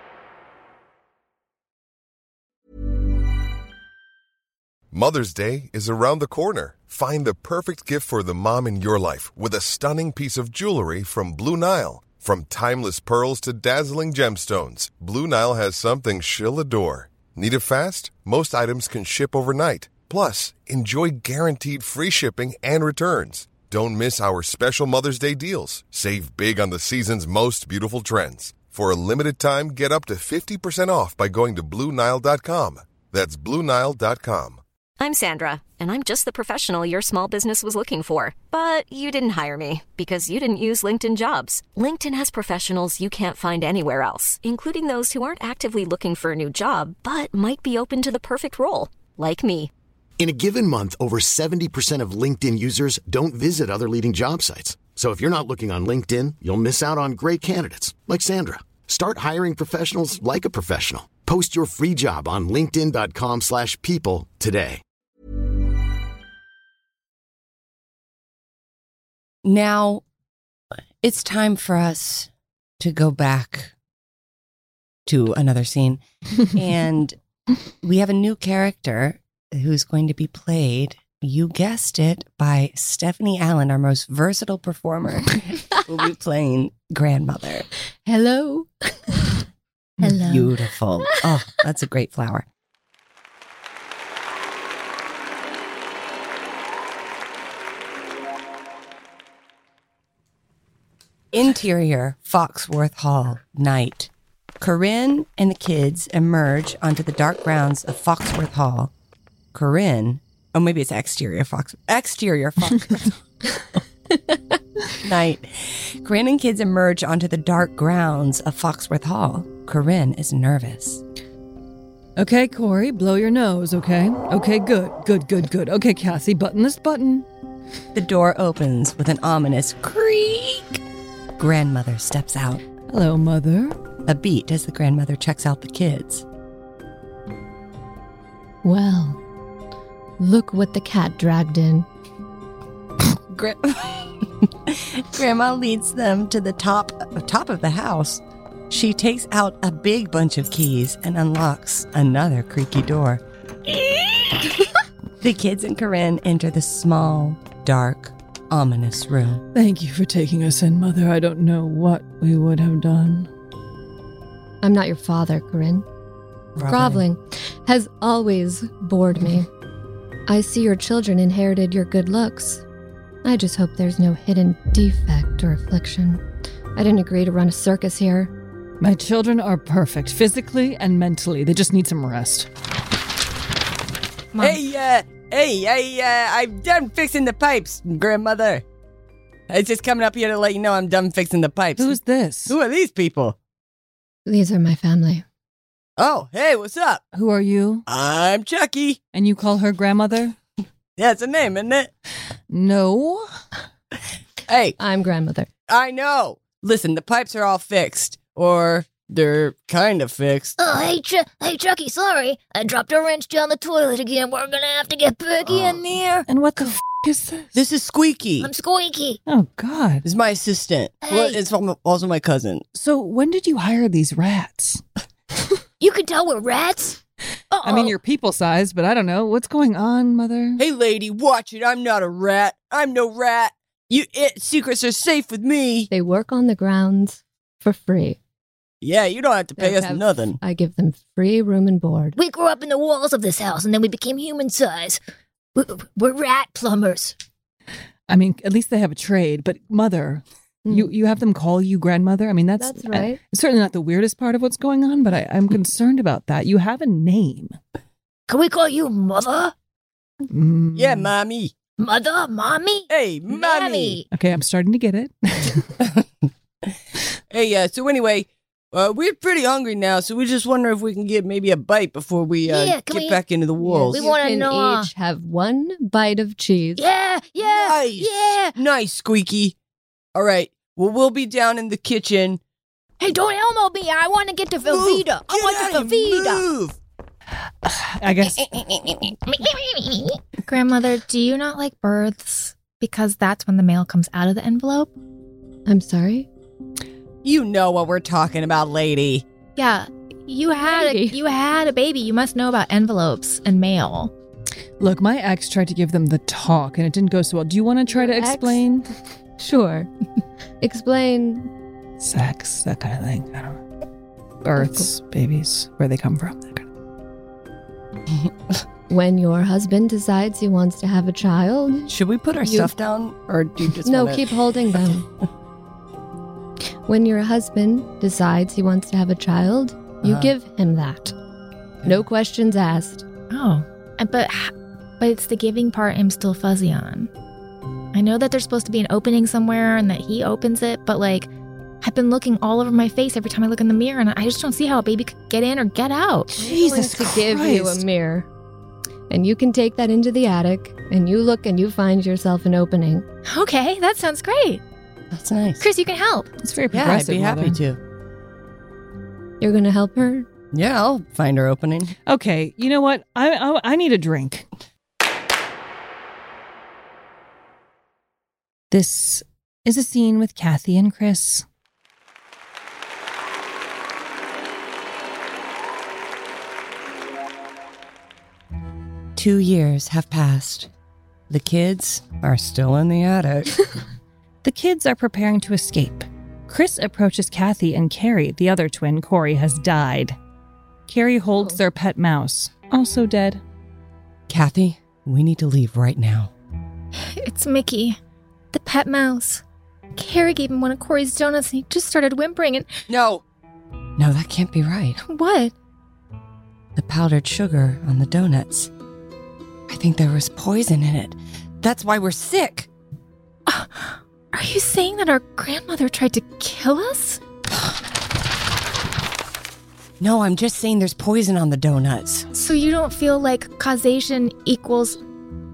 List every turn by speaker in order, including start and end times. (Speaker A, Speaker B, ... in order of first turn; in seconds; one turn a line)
Speaker A: 4.9-34.6
Speaker B: 35.0-49.7
Speaker C: 50.2-64.8
Speaker D: 69.4-70.0
Speaker D: 71.0-73.7
Speaker D: 75.1-77.2
Speaker D: 77.8-87.7
Speaker E: 88.1-89.2
Speaker D: 90.2-92.5
Speaker D: 101.3-108.9
Speaker D: 109.5-113.2
Speaker D: 115.0-121.0
Speaker F: 122.2-127.3
Speaker D: 127.9-130.8
Speaker D: 131.4-132.6
Speaker F: 132.9-133.8
Speaker D: 134.1-136.2
Speaker E: 138.6-139.2
Speaker E: 140.2-141.9
Speaker D: 143.3-153.2
Speaker D: 155.2-159.4
Speaker F: 159.5-163.3
Speaker E: 164.6-165.8
Speaker D: 166.6-167.1
Speaker E: 166.6-169.5
Speaker E: 170.3-172.6
Speaker E: 173.2-176.2
Speaker E: 176.8-178.3
Speaker F: 178.8-182.5
Speaker G: 184.3-184.6
Speaker D: 184.4-188.6
Speaker D: 189.5-193.4
Speaker F: 191.8-192.6
Speaker E: 194.3-195.2
Speaker D: 196.0-197.0
Speaker F: 197.1-197.8
Speaker D: 197.9-199.0
Speaker F: 199.1-200.3
Speaker D: 201.0-201.9
Speaker F: 202.5-203.3
Speaker D: 204.5-204.8
Speaker E: 204.8-205.5
Speaker D: 205.7-210.6
Speaker H: 210.6-216.2
Speaker D: 215.5-215.8
Speaker F: 216.3-217.6
Speaker D: 217.6-218.5
Speaker H: 218.4-219.2
Speaker F: 219.3-220.1
Speaker D: 220.0-222.6
Speaker H: 221.0-221.4
Speaker F: 222.7-224.8
Speaker H: 225.8-227.0
Speaker H: 227.5-227.9
Speaker F: 227.6-230.6
Speaker D: 230.6-235.9
Speaker E: 235.9-238.2
Speaker D: 238.8-240.4
Speaker E: 239.6-242.2
Speaker H: 242.2-245.0
Speaker H: 245.6-247.2
Speaker F: 248.1-257.6
Speaker E: 250.7-250.9
Speaker E: 252.6-253.2
Speaker H: 258.3-259.5
Speaker F: 260.3-261.1
Speaker D: 260.8-261.5
Speaker H: 261.8-264.1
Speaker D: 262.9-264.0
Speaker F: 264.1-265.8
Speaker D: 265.8-266.1
Speaker D: 267.3-274.1
Speaker H: 272.4-273.2
Speaker E: 273.6-276.9
Speaker H: 273.9-274.9
Speaker H: 276.8-278.6
Speaker D: 277.4-279.6
Speaker D: 280.1-282.4
Speaker G: 283.0-285.8
Speaker D: 284.6-286.8
Speaker H: 284.8-286.4
Speaker F: 287.6-288.5
Speaker D: 288.2-289.2
Speaker G: 289.3-294.9
Speaker E: 295.7-296.3
Speaker D: 297.2-299.2
Speaker G: 299.6-304.1
Speaker E: 300.6-301.2
Speaker F: 304.8-308.9
Speaker E: 307.9-308.7
Speaker E: 309.4-309.9
Speaker E: 310.6-311.5
Speaker F: 312.0-313.6
Speaker F: 314.4-316.7
Speaker E: 314.6-314.9
Speaker D: 318.1-318.6
Speaker E: 318.9-321.9
Speaker D: 321.9-324.3
Speaker E: 322.4-322.7
Speaker E: 323.8-325.0
Speaker E: 326.9-331.1
Speaker D: 330.0-330.3
Speaker E: 331.9-333.1
Speaker G: 333.3-337.1
Speaker G: 337.9-341.3
Speaker G: 341.8-346.4
Speaker F: 346.4-347.9
Speaker E: 346.4-348.3
Speaker E: 349.1-353.1
Speaker G: 353.3-354.6
Speaker D: 355.1-355.6
Speaker G: 355.6-356.3
Speaker F: 356.4-357.6
Speaker D: 356.7-357.8
Speaker E: 359.4-360.3
Speaker D: 360.5-361.9
Speaker F: 362.1-364.5
Speaker F: 368.7-371.4
Speaker D: 379.2-380.7
Speaker D: 381.3-383.7
Speaker F: 384.4-390.2
Speaker F: 390.9-393.4
Speaker D: 394.3-396.3
Speaker G: 397.1-398.0
Speaker G: 398.5-399.4
Speaker G: 400.0-402.7
Speaker D: 402.9-403.2
Speaker D: 404.0-405.0
Speaker G: 405.0-405.5
Speaker D: 406.8-408.7
Speaker D: 409.7-412.7
Speaker G: 413.5-417.2
Speaker D: 420.0-422.3
Speaker G: 422.3-425.0